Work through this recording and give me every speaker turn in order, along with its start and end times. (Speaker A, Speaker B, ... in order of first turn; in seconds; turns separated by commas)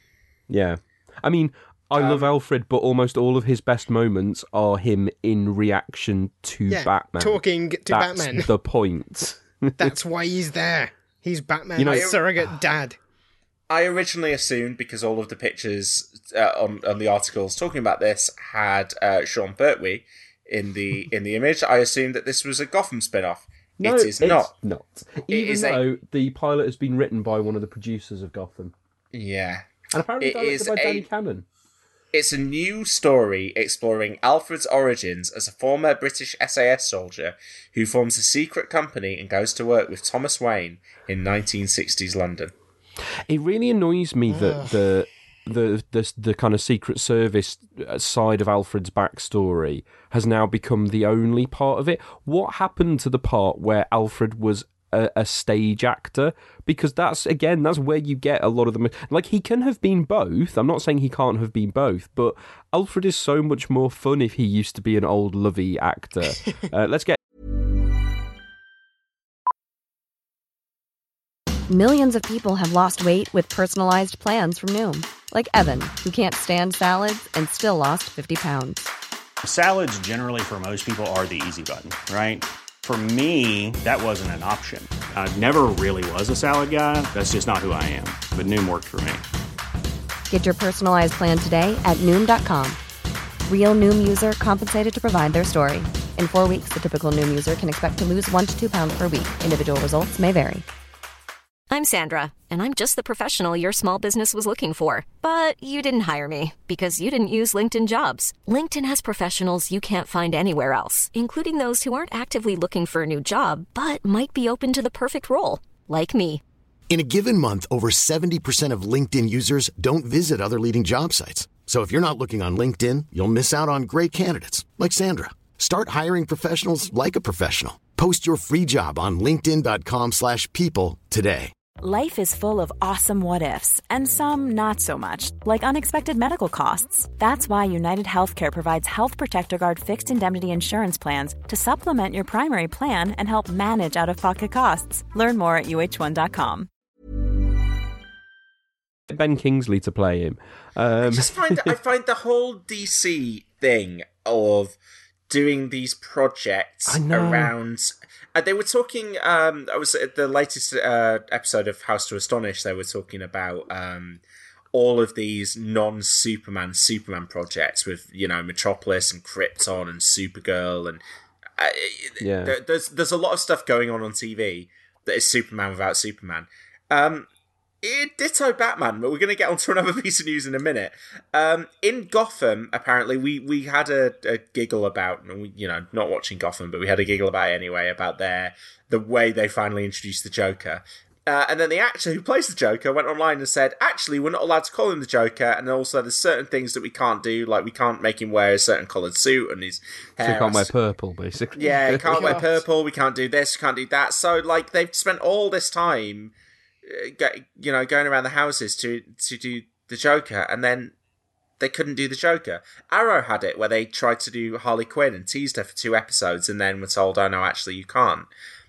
Speaker A: 0.5-9.9, Speaker B: 6.7-8.5, Speaker B: 9.8-13.0, Speaker A: 11.8-12.1, Speaker C: 11.9-12.2, Speaker C: 13.7-24.5, Speaker A: 23.8-28.7, Speaker C: 25.3-25.8, Speaker C: 29.1-29.7, Speaker A: 29.9-31.4, Speaker C: 30.2-31.1, Speaker C: 32.1-42.5, Speaker A: 43.2-67.2, Speaker D: 71.7-78.9, Speaker E: 79.4-89.2, Speaker D: 90.3-92.8, Speaker D: 93.5-100.6, Speaker F: 101.7-116.4, Speaker G: 116.9-131.5, Speaker H: 131.8-146.7, Speaker A: 149.1-151.7, Speaker C: 151.0-154.8, Speaker C: 155.3-164.2, Speaker A: 156.9-157.5, Speaker C: 164.7-171.0, Speaker C: 171.6-177.3, Speaker A: 172.2-172.5, Speaker C: 177.8-200.7, Speaker A: 200.2-202.5, Speaker C: 201.6-206.3, Speaker B: 202.1-202.4, Speaker C: 206.8-210.9, Speaker C: 211.6-218.3